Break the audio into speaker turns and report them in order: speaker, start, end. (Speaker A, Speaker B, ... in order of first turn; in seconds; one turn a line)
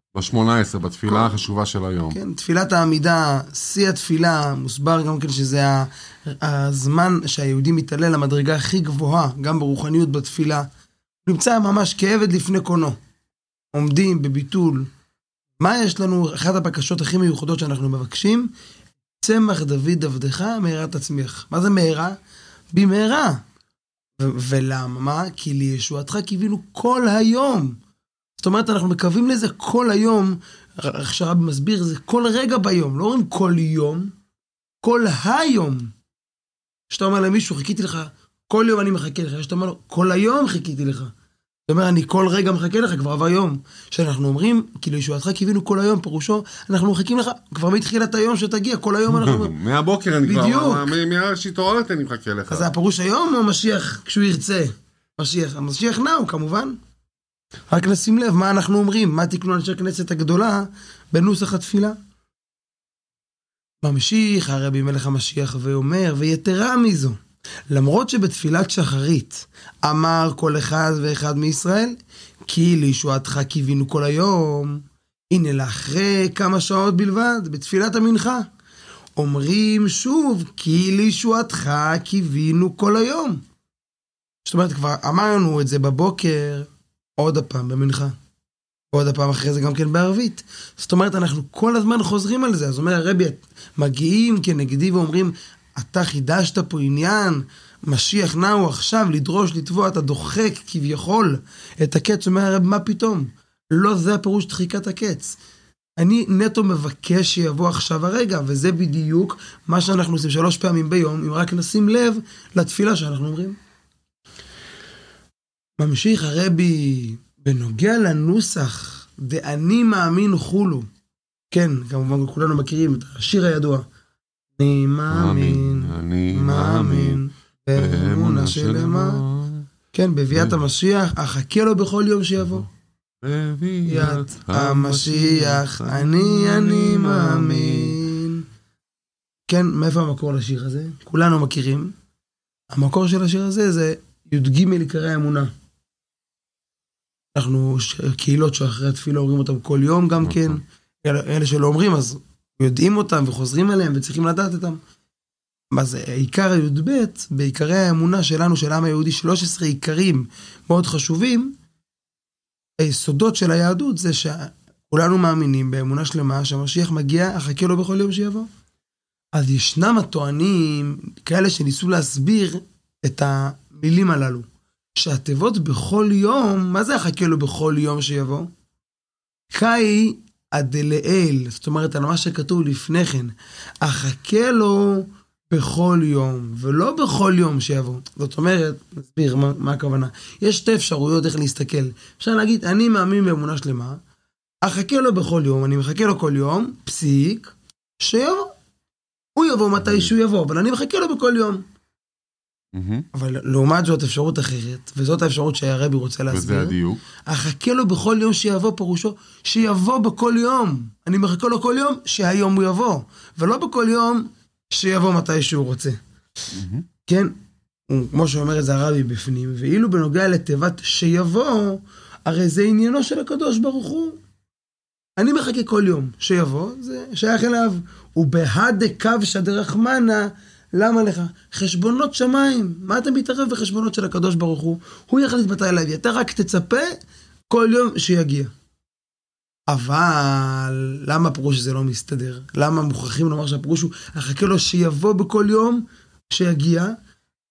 Speaker A: 0.1-2.2
Speaker B: 2.1-10.7
Speaker B: 11.3-13.0
Speaker B: 13.7-14.9
Speaker B: 15.6-18.5
Speaker B: 19.2-22.2
Speaker B: 22.7-23.4
Speaker B: 24.2-27.8
Speaker B: 28.4-34.1
Speaker B: 34.8-35.9
Speaker B: 36.9-41.1
Speaker B: 41.7-49.6
Speaker A: 49.1-52.7
Speaker B: 50.2-51.0
Speaker B: 52.5-56.8
Speaker B: 57.7-62.0
Speaker B: 63.8-67.2
Speaker B: 67.7-78.5
Speaker B: 79.2-83.4
Speaker B: 84.5-88.1
Speaker B: 88.9-105.4
Speaker B: 106.0-113.6
Speaker B: 115.8-120.9
Speaker B: 121.5-123.8
Speaker B: 124.6-129.2
Speaker A: 125.1-127.2
Speaker A: 127.8-129.7
Speaker B: 129.9-132.7
Speaker A: 130.3-130.6
Speaker A: 133.2-137.9
Speaker B: 133.8-138.4
Speaker B: 139.5-141.9
Speaker B: 142.7-145.5
Speaker B: 147.3-154.8
Speaker A: 150.2-150.6
Speaker B: 155.7-161.5
Speaker B: 162.8-168.5
Speaker B: 169.3-174.5
Speaker B: 175.0-178.5
Speaker B: 179.5-194.0
Speaker B: 194.6-198.5
Speaker B: 199.4-201.6
Speaker A: 199.8-200.1
Speaker A: 202.7-203.1
Speaker B: 203.1-216.0
Speaker A: 206.3-207.0
Speaker A: 216.5-216.8
Speaker B: 217.1-217.3
Speaker B: 217.9-224.2
Speaker B: 225.2-236.9
Speaker B: 237.5-238.5
Speaker B: 239.7-246.9